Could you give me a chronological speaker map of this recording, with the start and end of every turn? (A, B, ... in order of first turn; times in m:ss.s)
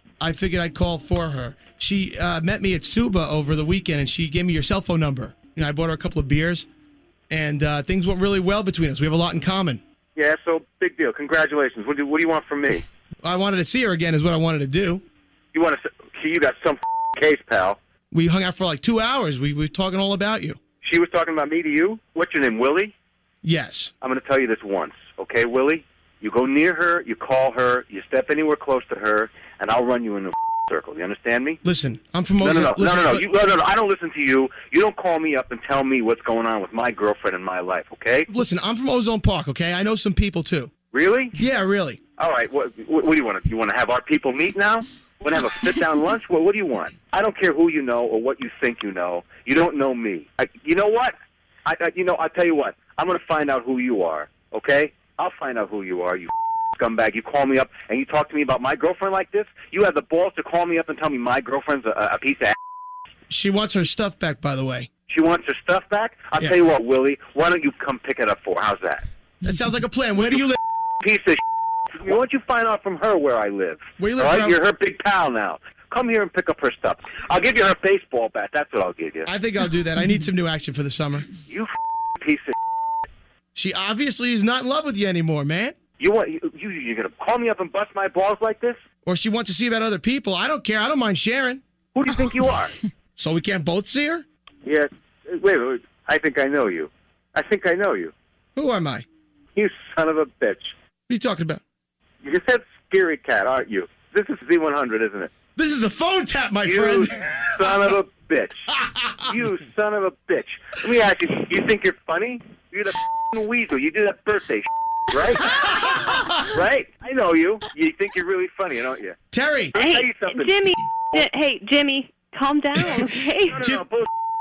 0:00.2-0:06.6 A
0:07.3-0:09.8 A
0:10.2-0:12.8 B
0:13.2-0:15.0 A
0:15.5-0:17.8 B
0:18.1-0:20.6 A
0:20.8-0:22.9 B
0:23.4-0:23.9 A
0:24.0-0:31.6 B
0:31.6-0:33.3 A
0:32.4-0:38.3 B
0:38.3-0:40.7 A
0:40.9-0:41.3 B
0:41.3-0:42.0 A
0:42.2-1:02.5 B
1:03.3-1:04.9 A
1:05.1-1:09.0 B
1:09.4-1:10.6 A
1:11.0-1:11.4 B
1:11.9-1:19.3 B
1:14.0-1:14.6 A
1:19.3-1:21.3 A
1:21.5-1:22.5 B
1:23.5-1:25.7 A
1:26.0-1:28.8 B
1:29.0-1:31.6 A
1:31.9-1:32.7 B
1:33.2-1:34.2 A
1:34.6-1:38.1 B
1:38.6-1:39.0 A
1:39.6-1:40.7 B
1:41.1-1:41.6 A
1:42.2-1:45.3 B
1:45.6-1:47.2 A
1:46.6-1:48.7 B
1:49.2-1:59.1 B
1:55.4-1:56.4 A
1:59.3-1:59.7 A
1:59.7-2:01.3 B
1:59.7-2:03.6 C
2:03.5-2:04.1 B